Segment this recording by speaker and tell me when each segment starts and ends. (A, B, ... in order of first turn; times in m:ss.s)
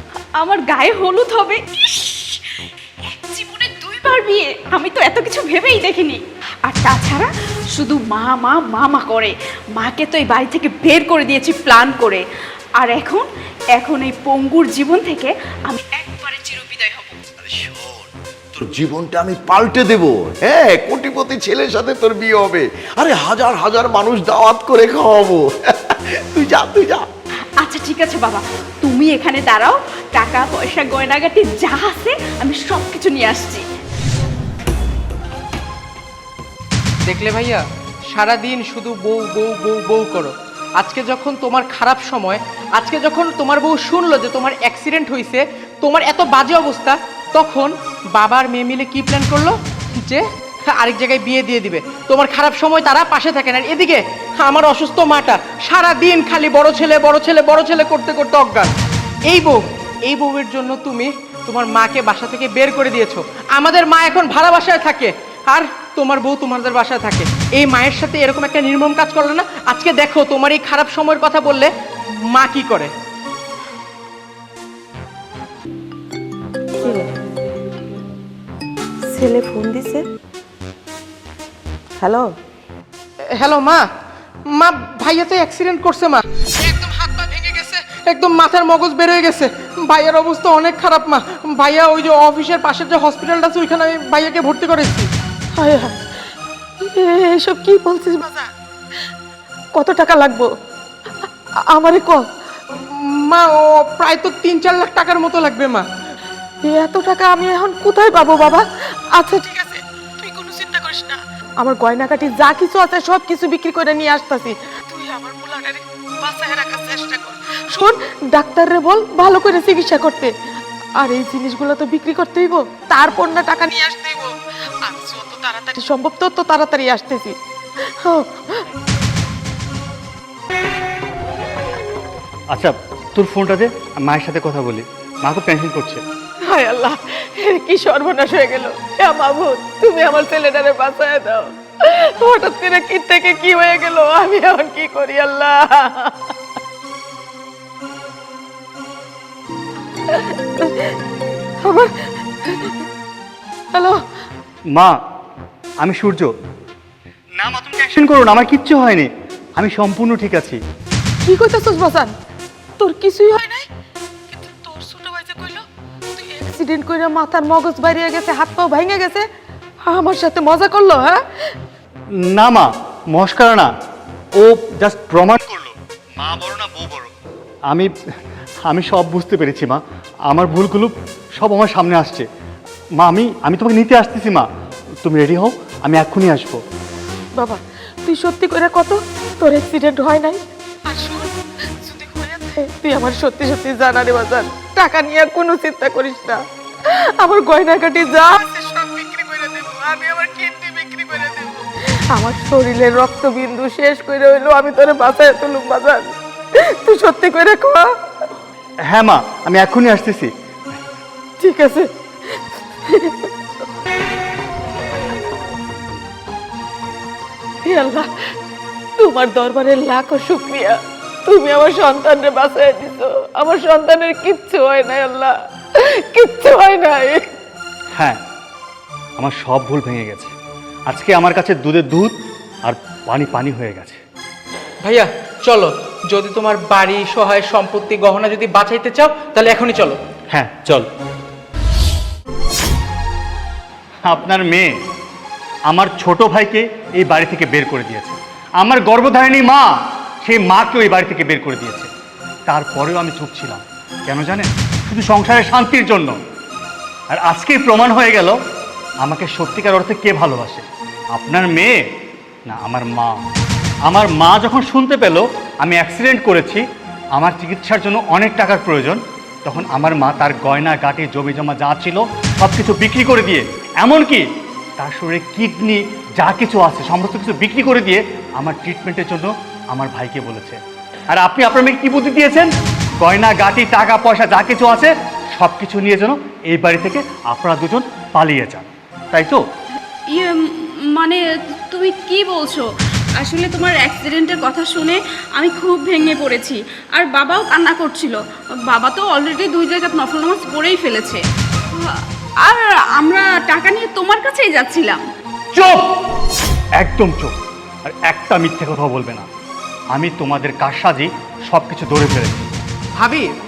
0:00.4-0:02.4 A
0:03.1-0:12.2 A
0:12.8-0:17.2 A
0:17.4-0:27.0 B
0:27.6-0:33.6 A
0:37.0-0:58.7 C
0:59.3-1:11.7 C
1:12.3-1:12.9 C
1:19.1-1:20.0 D
1:23.3-1:23.8 C
1:24.5-1:35.1 C
1:35.6-1:35.9 D
1:36.8-1:38.5 D
1:39.7-1:40.5 D
1:41.7-1:42.2 D
1:42.7-1:45.8 C
1:46.6-1:48.6 D
1:49.1-2:00.3 D
2:01.0-2:04.3 D
2:04.8-2:07.3 D
2:08.0-2:08.6 D
2:12.5-2:16.0 E
2:16.5-2:26.3 D
2:30.1-2:30.9 D
2:31.6-2:31.9 D
2:35.8-2:36.3 E
2:37.4-2:40.6 E
2:41.2-2:42.1 D
2:42.8-2:43.6 D
2:44.3-2:45.6 D
2:46.2-2:49.2 D
2:49.8-2:51.2 D
2:52.2-2:53.7 E
2:54.4-2:57.1 E
2:58.6-3:02.2 E
3:03.0-3:04.5 E
3:05.0-3:06.6 E
3:07.4-3:11.3 D
3:11.8-3:16.4 D
3:17.2-3:26.1 D
3:26.8-3:27.8 D
3:28.9-3:30.3 E
3:31.4-3:32.4 D
3:32.9-3:33.3 D
3:37.6-3:38.1 D
3:39.0-3:47.2 D
3:49.2-3:50.3 E
3:50.9-3:52.1 E
3:52.6-3:54.0 E
3:54.8-4:00.0 C
4:00.3-4:00.9 E
4:04.0-4:04.7 E
4:05.7-4:09.7 E
4:10.2-4:11.9 E
4:12.5-4:16.2 E
4:17.1-4:18.4 E
4:19.0-4:21.8 E
4:22.5-4:23.2 E
4:23.8-4:26.6 E
4:27.2-4:34.2 E
4:34.8-4:49.4 E
4:50.1-4:50.4 A
4:50.9-4:52.6 A
4:53.2-5:01.2 A
5:01.8-5:05.0 A
5:05.5-5:05.8 E
5:06.8-5:09.3 E
5:09.9-5:12.5 E
5:13.0-5:13.3 C